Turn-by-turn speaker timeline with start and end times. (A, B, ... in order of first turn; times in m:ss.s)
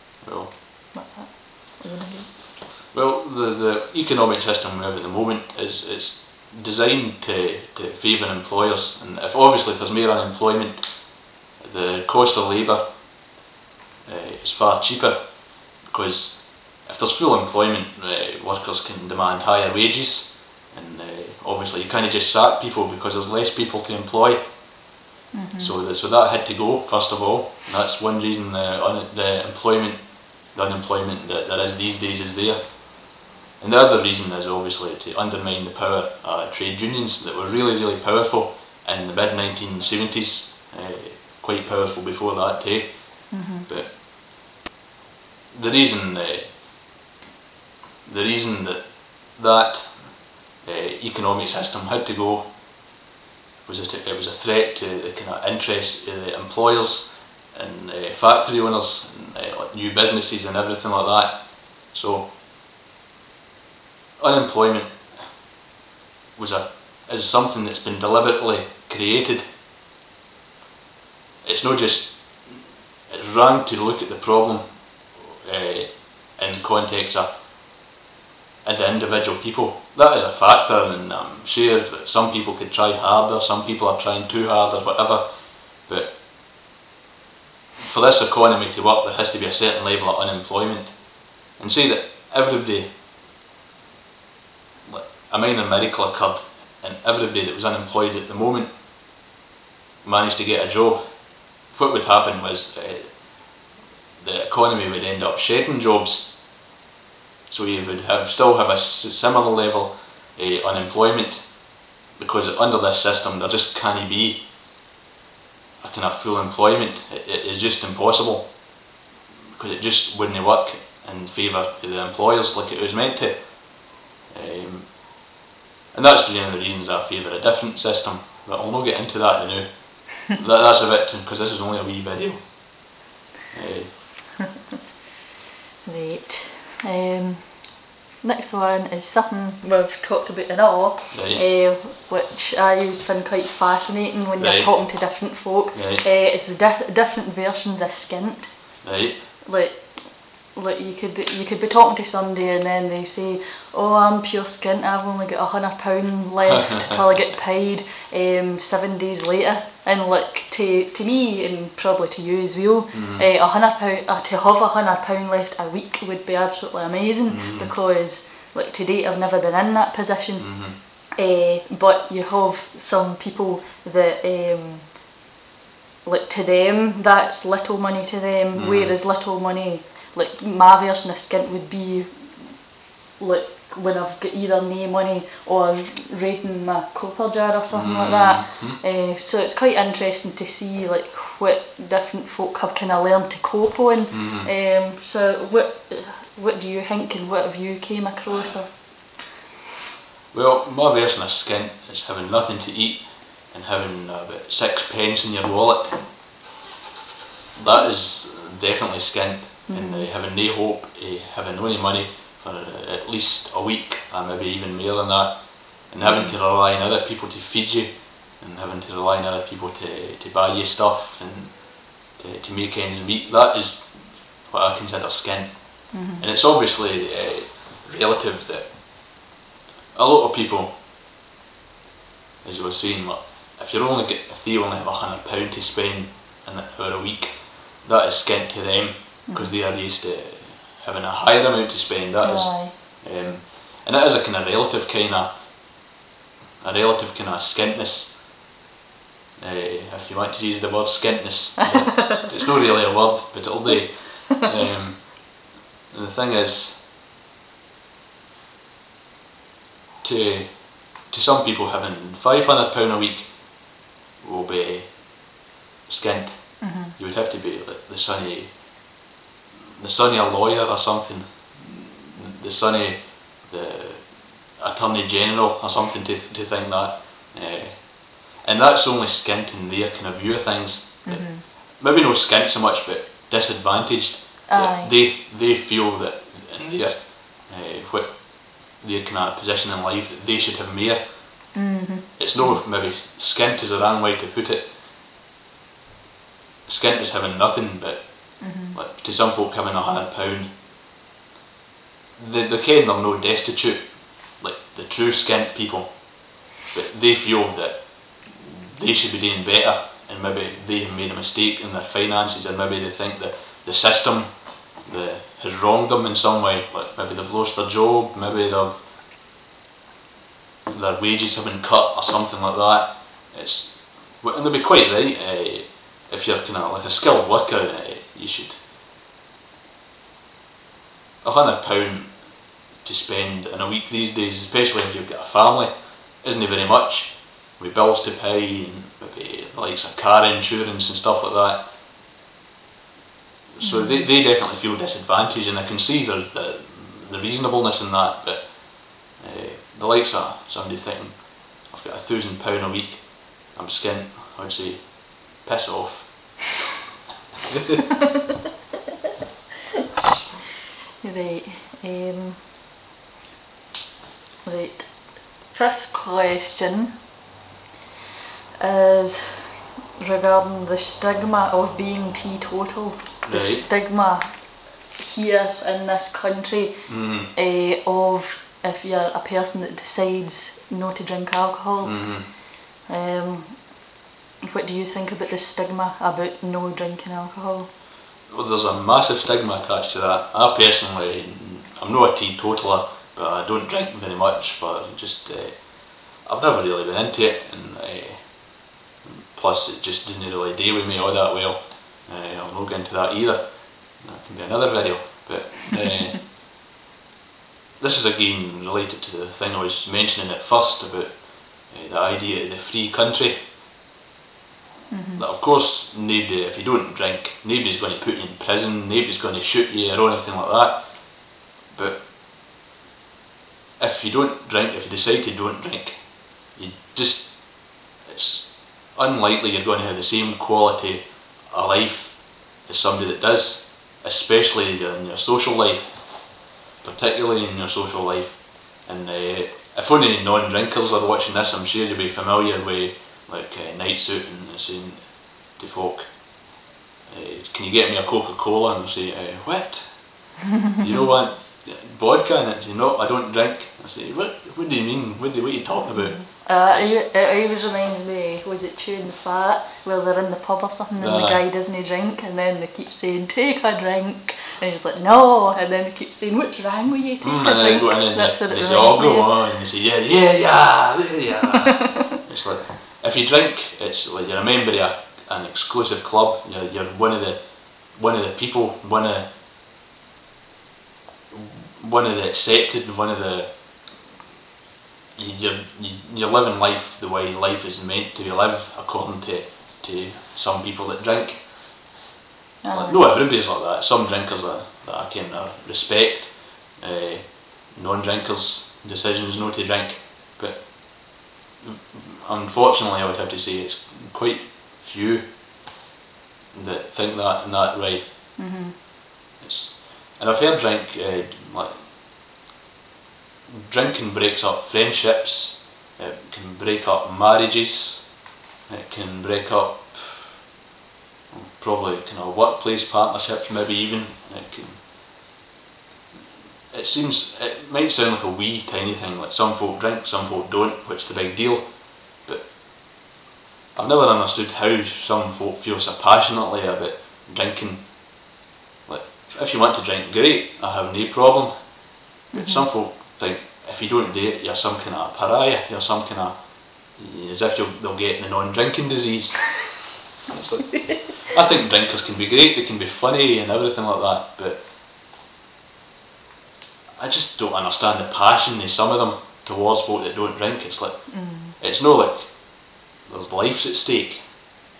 0:00.2-0:00.6 A
0:00.9-0:02.4 B
0:02.9-0:11.0 A
0:11.6-0:13.0 A
0:14.0-0:24.4 A
0:25.3-0:25.7 B
0:25.6-0:32.7 A
0:33.6-0:44.0 A
0:43.3-0:43.7 B
0:45.5-0:46.6 A
0:48.0-0:52.5 A
0:53.6-1:02.3 A
1:04.2-1:05.0 A
1:06.4-1:09.5 A
1:11.4-1:17.3 A
1:18.6-1:26.2 A
1:27.8-1:32.9 A
1:34.9-1:38.7 A
1:40.0-1:43.3 A
1:44.2-1:46.4 A
1:47.5-1:54.4 A
1:55.8-1:58.7 A
1:59.5-2:03.7 A
2:04.3-2:05.1 A
2:05.9-2:12.9 A
2:13.5-2:14.3 A
2:15.8-2:28.8 B
2:21.1-2:21.4 A
2:24.4-2:25.0 A
2:25.7-2:26.0 A
2:28.8-2:29.3 A
2:29.4-2:55.0 B
2:42.9-2:43.3 A
2:47.3-2:47.7 A
2:50.4-2:50.8 A
2:56.0-3:19.3 B
2:58.5-2:59.0 A
3:07.7-3:08.8 A
3:14.1-3:14.5 A
3:20.3-3:26.1 A
3:27.6-3:49.3 A
3:29.7-3:30.1 B
3:36.0-3:36.4 B
3:45.9-3:46.2 B
3:49.9-3:50.7 A
3:52.4-4:05.4 A
3:59.3-3:59.6 B
4:02.2-4:02.9 B
4:06.6-4:08.2 A
4:09.4-4:15.3 A
4:15.9-4:16.8 A
4:20.0-4:25.4 A
4:25.9-4:28.6 A
4:26.6-4:26.9 B
4:29.8-4:51.4 A
4:41.0-4:41.4 B
4:44.5-4:44.9 B
4:51.5-4:52.6 B
4:52.2-4:54.7 A
4:56.6-5:00.5 A
4:58.4-4:58.8 B
5:02.2-5:18.8 A
5:20.7-5:28.6 A
5:31.2-5:32.2 A
5:32.8-5:41.7 A
5:43.6-5:56.4 A
5:43.6-5:44.1 B
6:01.0-6:02.4 B
6:04.4-6:07.0 B
6:08.6-6:23.9 B
6:13.2-6:13.7 A
6:16.8-6:17.3 A
6:21.8-6:22.3 A
6:24.4-6:27.7 B
6:28.3-6:38.5 A
6:39.0-6:46.2 A
6:47.8-6:53.4 A
6:54.9-6:55.2 B
6:55.2-7:02.1 A
7:03.8-7:16.2 A
7:16.8-7:26.2 A
7:27.1-7:30.0 A
7:30.8-7:37.1 A
7:35.9-7:49.5 B
7:41.0-7:41.4 A
7:47.2-7:59.3 A
7:51.8-7:52.1 B
8:01.3-8:03.6 A
8:05.2-8:11.9 A
8:12.6-8:13.0 B
8:12.7-8:25.7 A
8:26.5-8:28.3 A
8:28.4-8:28.7 B
8:29.4-8:31.9 A
8:33.5-8:38.1 A
8:38.7-8:40.4 A
8:41.3-8:44.8 A
8:46.7-8:52.9 A
8:53.7-8:58.3 A
8:58.8-9:01.5 A
9:02.3-9:14.7 A
9:02.3-9:02.7 B
9:17.0-9:22.4 A
9:21.1-9:21.6 B
9:23.0-9:24.2 A